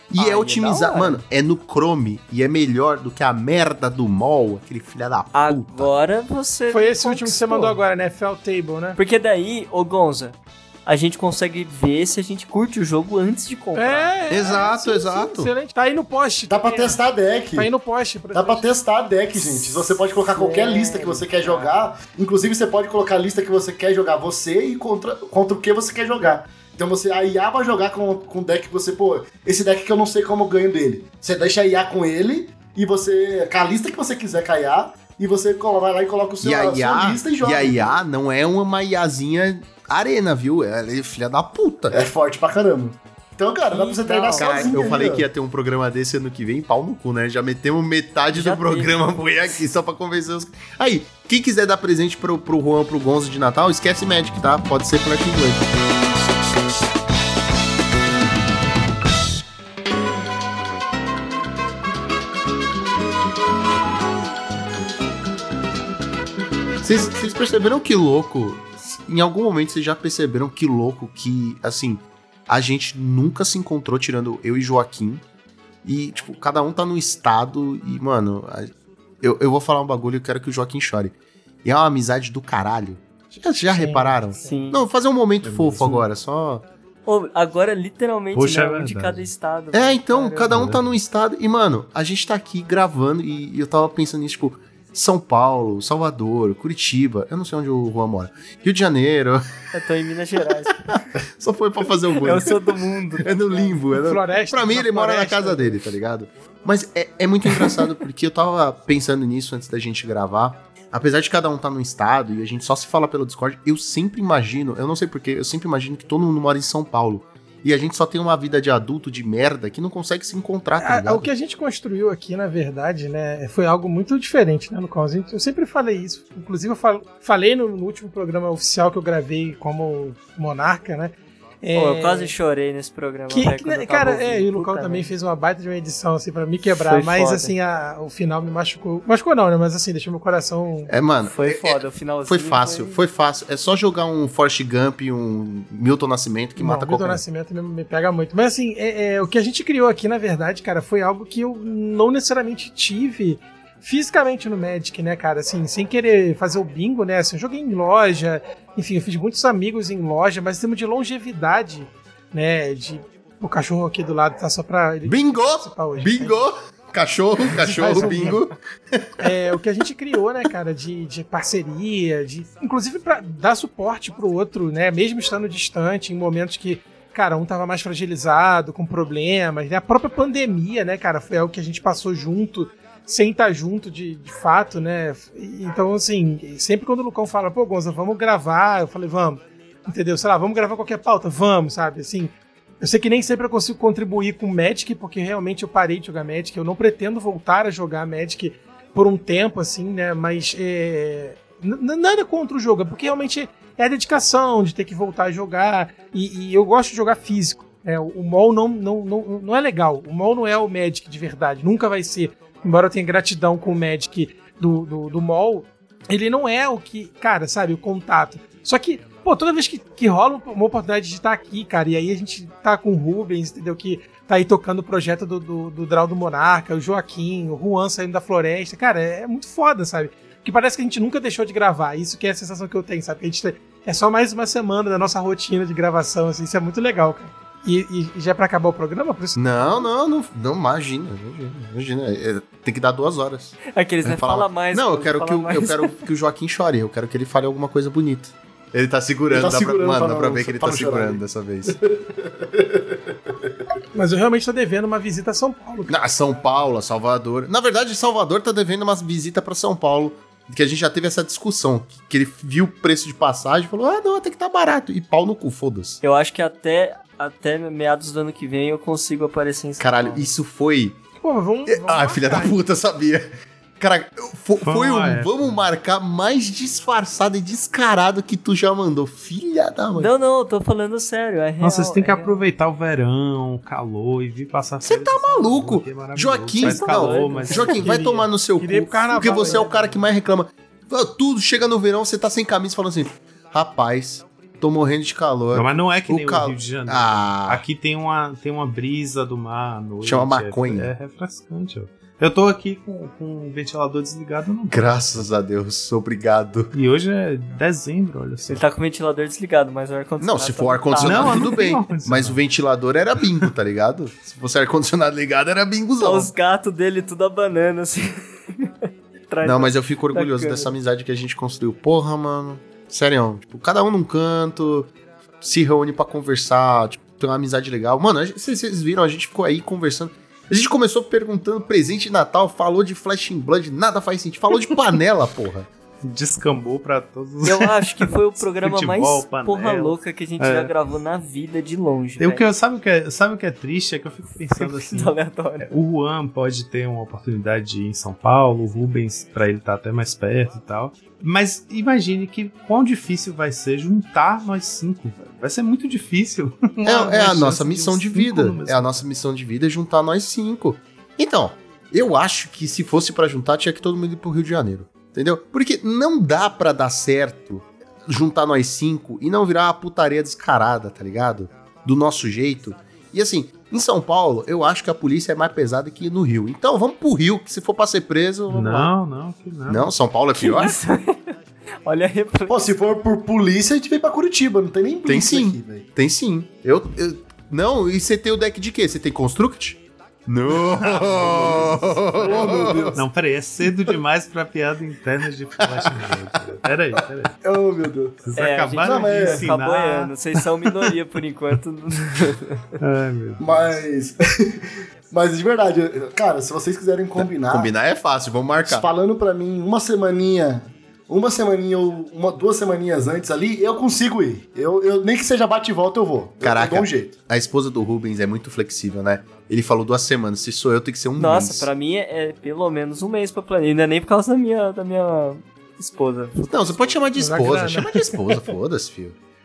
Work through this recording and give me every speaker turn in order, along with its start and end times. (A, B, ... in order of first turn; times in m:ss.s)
0:00.1-0:05.9 A
0:00.2-0:01.2 B
0:05.3-0:07.8 B
0:06.7-0:09.0 C
0:09.0-0:14.5 B
0:13.8-0:17.0 C
0:14.3-0:15.5 A
0:16.5-0:17.7 D
0:17.6-0:18.6 C
0:18.3-0:38.0 D
0:20.3-0:21.7 B
0:36.4-0:42.0 A
0:41.9-0:45.3 D
0:43.7-0:44.8 B
0:44.4-0:55.7 A
0:48.3-0:49.5 B
1:06.8-1:15.2 A
1:15.8-1:26.7 A
1:23.7-1:24.5 C
1:24.4-1:24.8 B
1:25.4-1:26.1 E
1:27.1-1:30.5 B
1:28.3-1:29.3 E
1:29.7-1:39.4 A
1:30.5-1:31.0 E
1:39.7-1:40.9 B
1:40.9-1:42.6 A
1:42.2-1:43.6 B
1:43.2-2:01.3 A
1:43.8-1:45.8 C
2:00.8-2:12.3 C
2:11.8-2:15.1 B
2:13.3-2:20.9 C
2:16.7-2:17.5 B
2:20.9-2:27.2 A
2:21.2-2:23.0 B
2:26.6-2:46.4 C
2:45.0-2:49.2 A
2:47.4-2:48.4 C
2:49.2-3:59.9 C
3:59.4-4:11.8 A
4:03.7-4:06.0 B
4:09.3-4:13.5 D
4:13.9-4:16.1 C
4:15.9-4:26.0 A
4:26.0-4:30.3 B
4:29.8-4:31.0 A
4:31.2-4:32.6 C
4:31.7-4:33.3 A
4:33.8-4:40.1 A
4:34.6-4:35.6 E
4:40.0-4:42.4 B
4:41.6-4:47.9 E
4:44.8-4:57.6 A
4:46.6-4:47.8 B
4:47.8-4:50.0 C
4:49.3-4:49.6 B
4:55.5-5:05.3 E
5:00.0-5:00.9 A
5:04.7-5:06.7 A
5:06.7-5:08.6 E
5:08.5-5:11.6 B
5:10.2-5:16.3 A
5:11.0-5:12.4 E
5:16.0-5:18.7 B
5:19.3-5:20.7 B
5:19.4-5:24.9 A
5:25.4-5:35.7 A
5:36.0-5:40.7 E
5:37.4-5:42.5 B
5:42.2-5:45.2 E
5:44.6-5:45.7 B
5:45.7-5:59.0 E
5:56.8-6:18.9 A
6:18.5-6:19.9 E
6:19.7-6:20.8 A
6:20.4-6:22.7 B
6:22.5-6:25.9 D
6:25.1-6:33.0 A
6:30.6-6:37.3 E
6:32.2-6:33.1 D
6:37.4-6:38.2 D
6:38.2-6:40.9 E
6:38.4-6:42.6 B
6:38.8-6:39.5 D
6:42.8-6:43.8 E
6:43.4-6:47.7 D
6:47.2-6:48.9 A
6:48.6-6:57.1 D
6:56.4-7:01.7 A
7:01.2-7:07.1 B
7:06.5-7:09.2 A
7:07.2-7:08.5 C